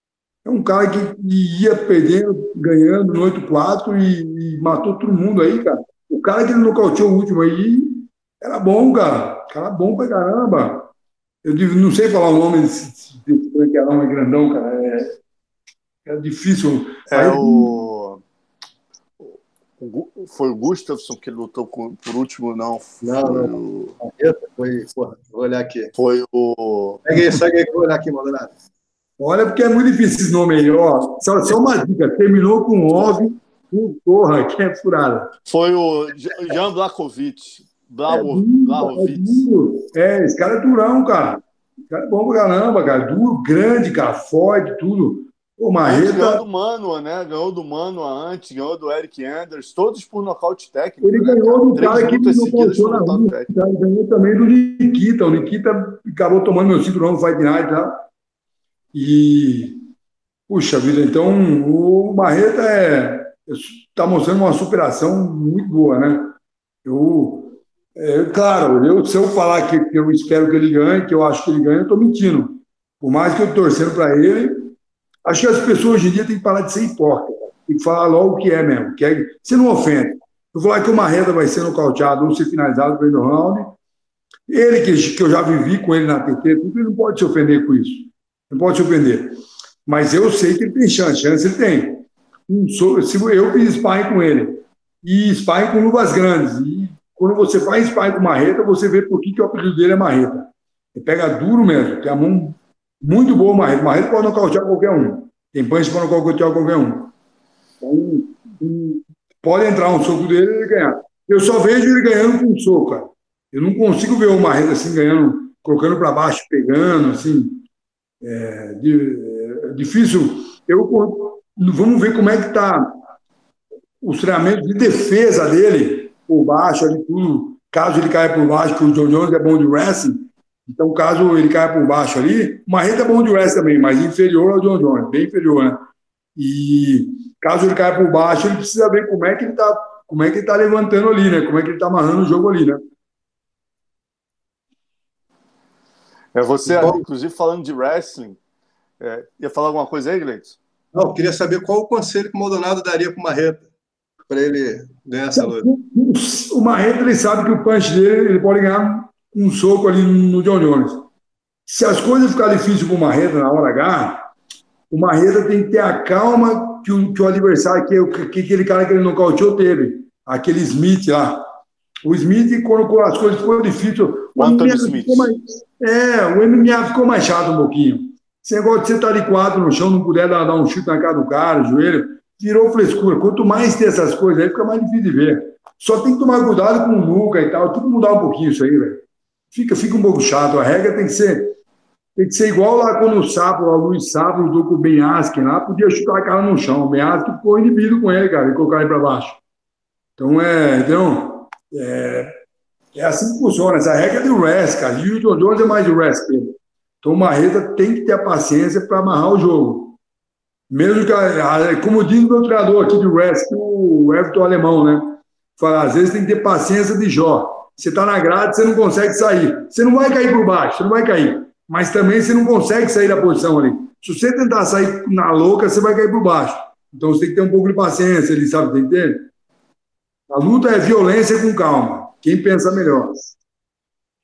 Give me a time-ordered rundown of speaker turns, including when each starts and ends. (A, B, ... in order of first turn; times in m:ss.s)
0:00.4-0:10.9 A
0:11.4-0:15.2 A
0:16.1-0:17.7 A
0:17.1-0:18.2 B
0:19.2-0:24.0 B
0:23.0-0:23.5 C
0:24.2-0:25.9 C
0:25.9-0:27.1 B
0:27.1-0:28.5 C
0:29.2-0:35.3 A
0:35.5-0:39.5 B
0:38.1-0:46.4 A
0:45.8-0:53.5 B
0:51.0-0:58.0 A
0:58.9-0:59.8 A
1:00.5-1:14.7 A
1:15.3-1:23.8 A
1:24.5-1:47.1 A
1:47.8-1:57.6 A
1:58.2-2:02.9 A
2:04.0-2:15.8 A
2:16.4-2:22.8 A
2:26.4-2:28.4 B
2:26.7-2:27.0 C
2:29.0-2:30.6 B
2:30.9-2:33.7 C
2:34.3-2:35.7 C
2:35.3-2:41.1 A
2:41.7-2:44.2 A
2:44.9-2:51.4 A
2:52.0-3:11.6 A
2:54.4-2:55.3 B
3:12.2-3:19.4 A
3:20.2-3:22.3 A
3:23.0-3:30.0 A
3:30.7-3:49.3 A
3:50.3-3:53.2 A